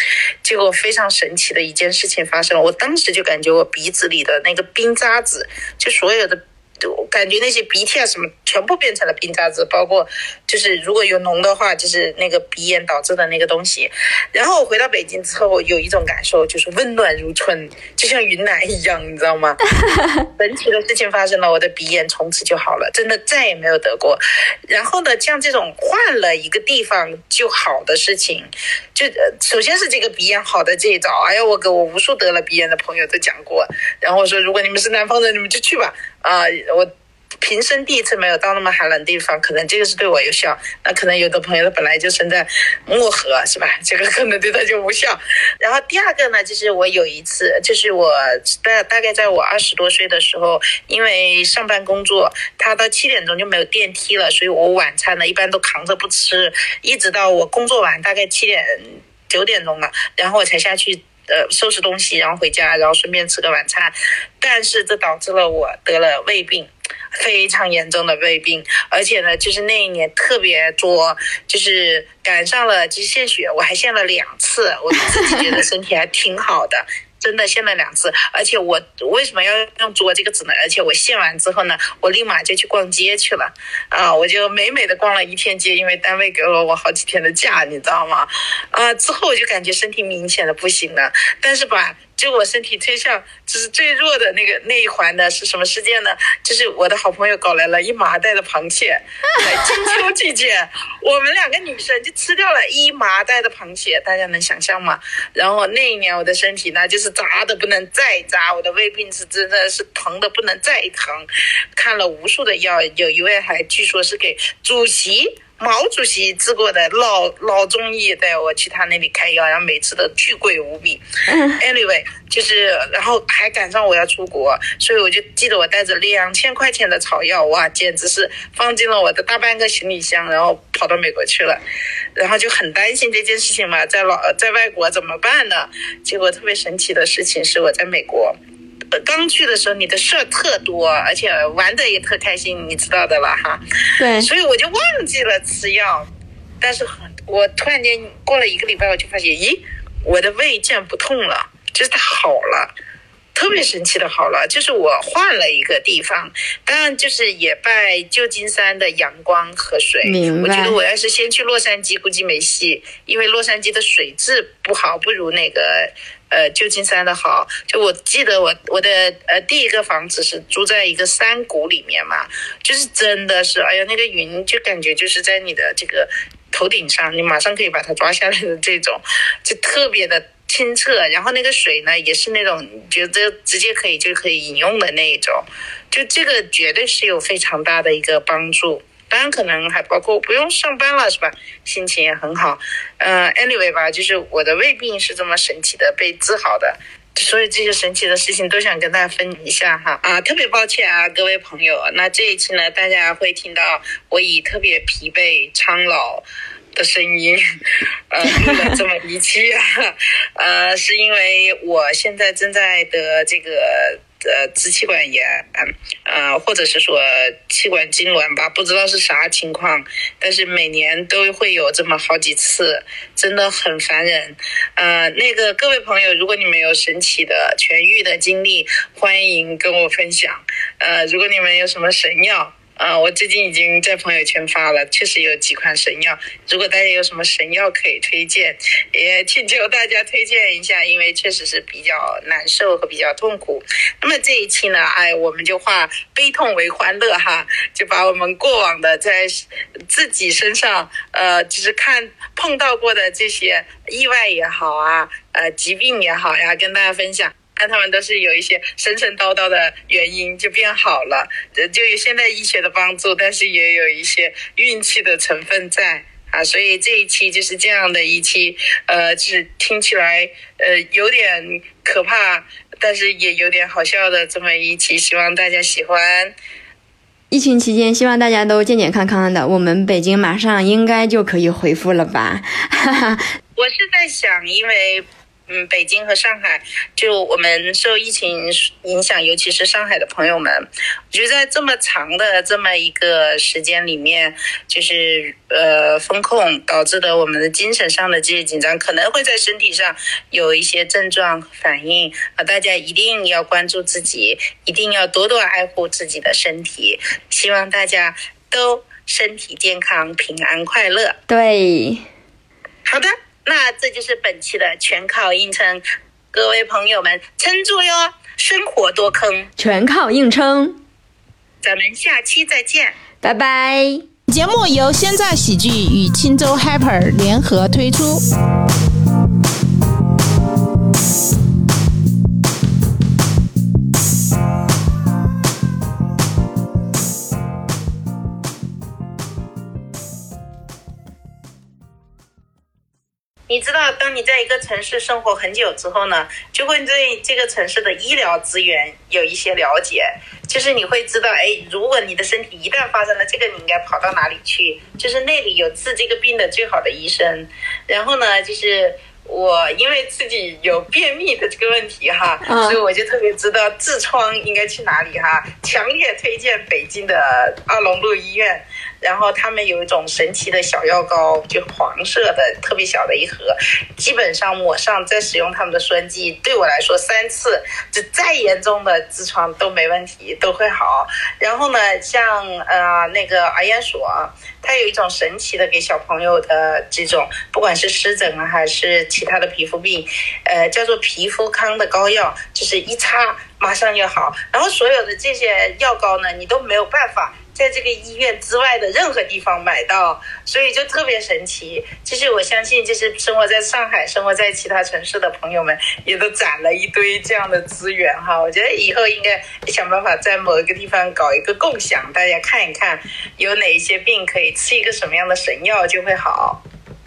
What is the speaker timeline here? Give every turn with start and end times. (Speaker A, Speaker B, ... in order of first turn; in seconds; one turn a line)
Speaker A: 0.4-19.6
Speaker B: 19.8-20.2
Speaker A: 20.4-36.9
Speaker A: 37.4-121.0
Speaker B: 75.1-75.6
Speaker B: 121.3-121.6
Speaker A: 121.5-131.6
Speaker A: 132.2-138.3
Speaker A: 139.0-143.6
Speaker B: 144.0-144.3
Speaker A: 144.2-146.1
Speaker A: 146.6-152.7
Speaker A: 153.3-207.4
Speaker B: 160.0-160.8
Speaker A: 208.1-276.3
Speaker B: 208.3-208.8
Speaker B: 277.3-283.2
Speaker A: 283.6-311.2
Speaker B: 311.3-312.1
Speaker A: 312.9-319.5
Speaker B: 319.6-320.8
Speaker A: 321.6-323.0
Speaker B: 323.2-324.1
Speaker C: 324.3-328.2
Speaker A: 343.5-416.6
Speaker B: 362.4-362.8